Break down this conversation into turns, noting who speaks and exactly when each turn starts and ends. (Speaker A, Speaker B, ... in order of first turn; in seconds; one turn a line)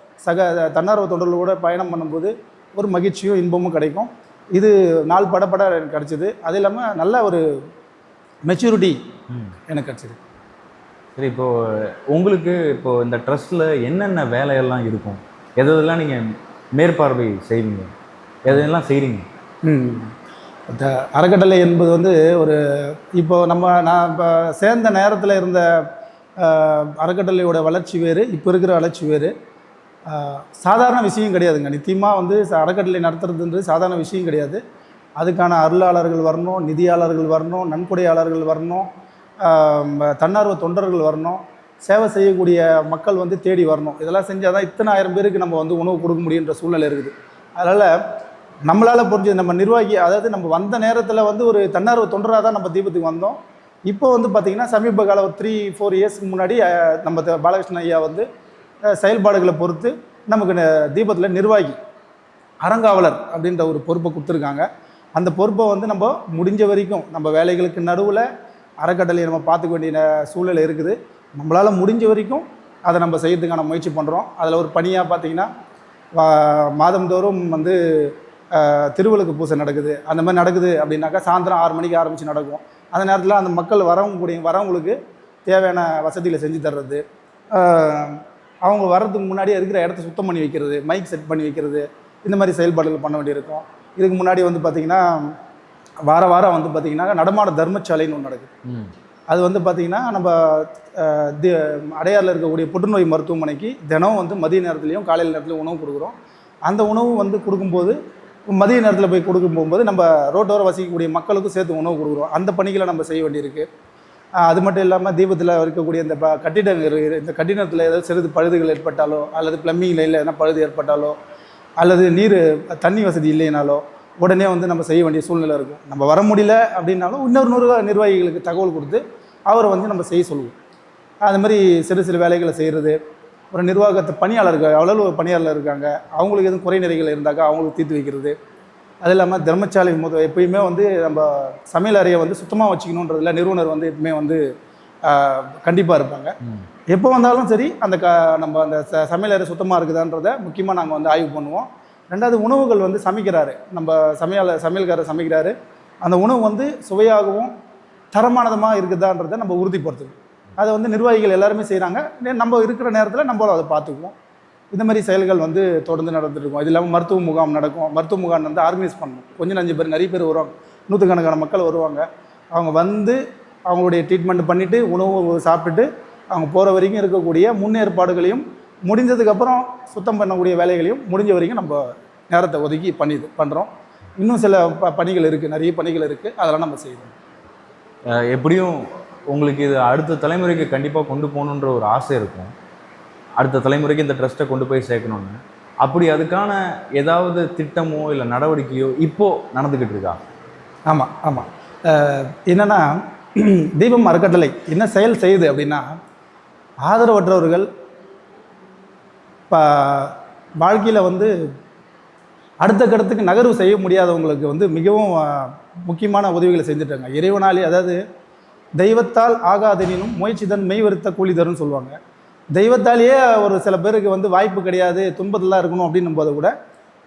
Speaker A: 0.2-7.4
Speaker A: 8.5-9.0
Speaker B: 9.3-9.5
Speaker A: 9.7-10.2
Speaker B: 11.2-16.2
Speaker B: 16.8-17.9
Speaker B: 18.4-19.2
Speaker A: 19.6-20.1
Speaker A: 20.7-29.3
Speaker A: 30.1-34.6
Speaker A: 35.2-38.9
Speaker A: 39.4-47.9
Speaker A: 48.7-58.3
Speaker A: 58.9-61.8
Speaker A: 62.6-68.2
Speaker A: 68.8-75.5
Speaker A: 76.2-95.3
Speaker A: 96.1-98.5
Speaker B: 98.7-98.9
Speaker A: 99.3-106.1
Speaker A: 106.7-108.0
Speaker A: 108.5-113.7
Speaker A: 114.4-121.2
Speaker A: 121.8-130.6
Speaker A: 131.2-133.0
Speaker A: 133.5-138.3
Speaker A: 139.0-144.4
Speaker A: 145.0-146.3
Speaker A: 146.9-157.5
Speaker A: 158.1-164.1
Speaker A: 164.7-187.1
Speaker B: 188.1-192.5
Speaker B: 193.4-200.2
Speaker A: 200.9-205.8
Speaker A: 206.8-207.7
Speaker A: 209.5-211.3
Speaker A: 212.6-218.0
Speaker A: 218.8-222.0
Speaker A: 222.6-226.5